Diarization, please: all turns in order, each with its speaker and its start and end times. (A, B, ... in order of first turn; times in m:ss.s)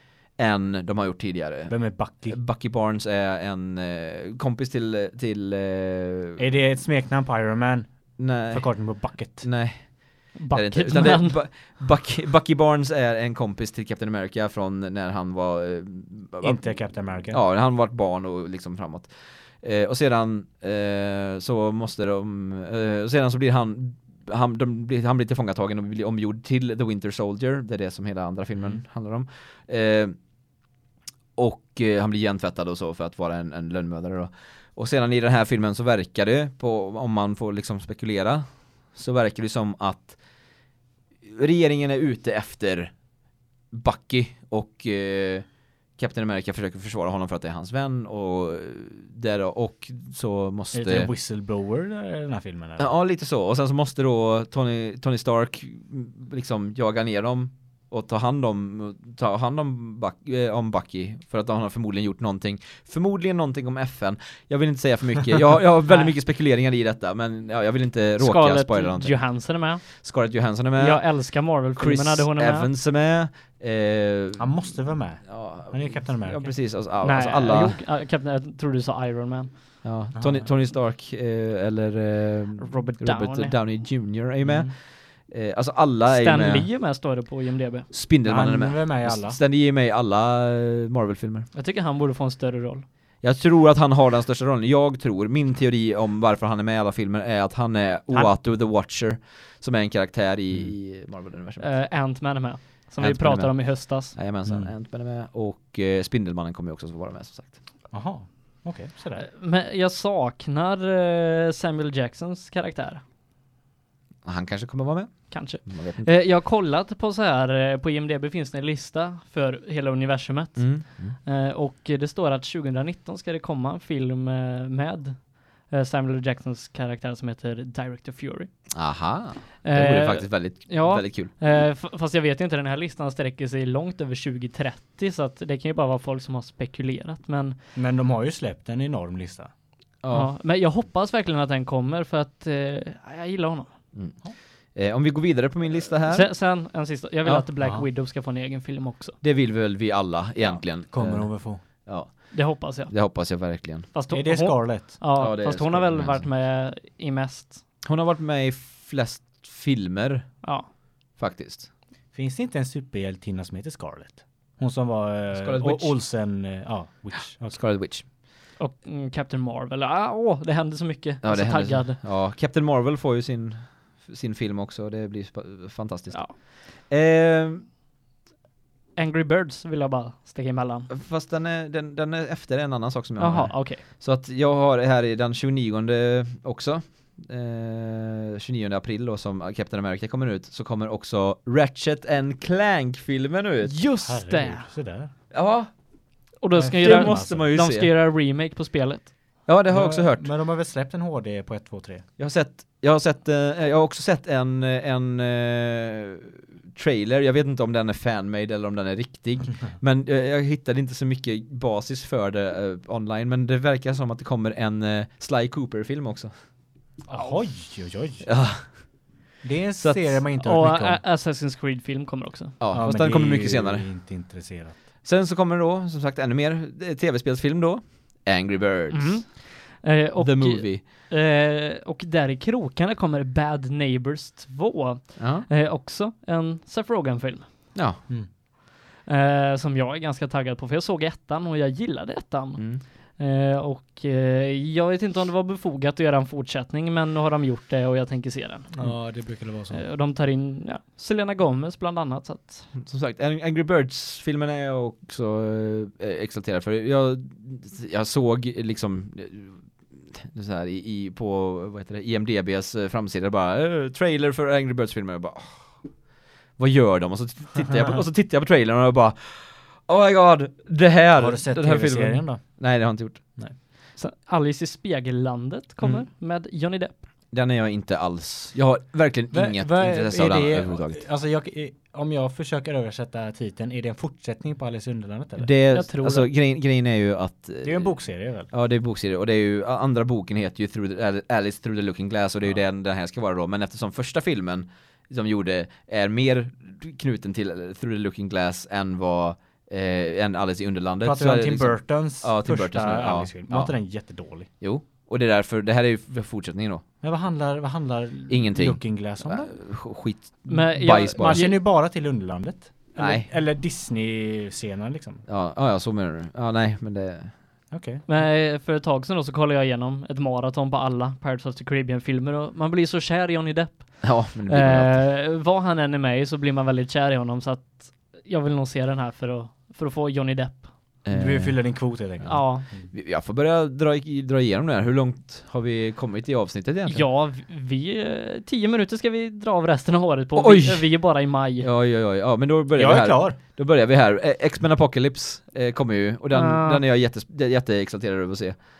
0:00.4-0:01.7 A
0:01.7-0:02.4 B
0:02.3-0:06.4 A
0:06.4-0:07.9 B
0:08.2-0:16.6 A
0:08.5-0:09.5 B
0:10.4-0:11.4 C
0:16.4-0:17.4 B
0:17.3-0:30.2 A
0:31.4-0:40.2 A
0:41.2-0:42.9 A
0:43.7-0:45.5 A
0:46.0-0:51.1 A
0:50.7-0:52.9 B
0:52.8-1:09.2 A
1:08.2-1:09.9 C
1:09.9-1:11.0 A
1:10.8-1:12.7 C
1:11.8-1:14.5 A
1:14.4-1:16.5 B
1:15.2-1:17.8 A
1:17.0-1:19.8 C
1:19.8-1:26.7 A
1:20.1-1:20.5 B
1:22.6-1:23.6 C
1:24.4-1:24.7 B
1:26.1-1:27.9 C
1:27.9-1:31.5 A
1:28.2-1:29.4 B
1:31.5-1:32.9 C
1:33.2-1:41.7 A
1:41.6-1:44.2 C
1:43.0-1:47.6 A
1:44.5-1:44.7 B
1:47.9-1:49.3 B
1:49.2-1:53.0 C
1:54.2-1:56.1 A
1:55.3-2:08.5 C
2:00.6-2:01.2 A
2:08.7-2:11.3 A
2:09.6-2:17.6 C
2:17.8-2:19.5 B
2:20.0-2:20.3 A
2:20.1-2:23.7 C
2:23.9-2:24.2 A
2:24.7-2:26.3 A
2:26.1-2:29.2 C
2:27.6-2:27.9 B
2:29.2-2:33.9 A
2:30.9-2:31.6 B
2:32.3-2:37.6 C
2:34.1-2:35.0 B
2:35.2-2:36.3 A
2:37.8-2:40.4 A
2:41.2-2:41.7 A
2:42.1-2:47.6 B
2:45.3-2:46.0 A
2:47.5-2:48.0 A
2:48.6-2:52.0 C
2:51.2-2:57.6 A
2:59.0-3:00.9 C
3:00.9-3:13.8 A
3:03.2-3:03.8 C
3:13.6-3:14.7 C
3:14.0-3:15.1 B
3:15.3-3:15.7 A
3:16.4-3:19.2 C
3:16.5-3:17.5 B
3:16.8-3:17.9 A
3:19.5-3:20.3 A
3:19.7-3:22.1 B
3:22.2-3:36.3 A
3:37.1-3:38.3 B
3:38.2-3:38.7 A
3:39.4-3:41.0 B
3:39.8-3:40.2 A
3:40.4-3:42.6 C
3:42.6-3:43.9 A
3:42.7-3:44.8 B
3:45.0-3:49.4 A
3:48.9-3:57.5 C
3:50.2-3:50.9 A
3:55.2-3:55.5 A
3:57.8-3:58.0 A
3:59.0-4:08.9 C
4:08.7-4:09.8 B
4:09.7-4:12.7 C
4:12.8-4:25.9 A
4:26.6-4:33.2 A
4:31.2-4:32.6 B
4:34.0-4:37.1 C
4:37.3-4:41.0 A
4:39.3-4:45.5 B
4:45.4-4:48.0 A
4:45.7-4:46.3 C
4:47.6-4:48.5 B
4:48.5-5:03.7 A
5:01.0-5:04.5 B
5:04.6-5:06.8 A
5:07.0-5:09.5 B
5:08.3-5:11.5 A
5:10.5-5:11.6 C
5:11.1-5:15.2 B
5:13.0-5:13.3 A
5:15.3-5:17.3 A
5:17.7-5:18.0 B
5:18.1-5:30.8 C
5:24.0-5:25.0 A
5:31.0-5:31.6 A
5:31.1-5:32.9 B
5:32.2-5:32.7 C
5:32.9-5:37.0 A
5:36.9-5:41.7 C
5:40.4-5:41.0 A
5:41.6-5:48.6 A
5:42.8-5:43.4 B
5:46.3-5:46.8 C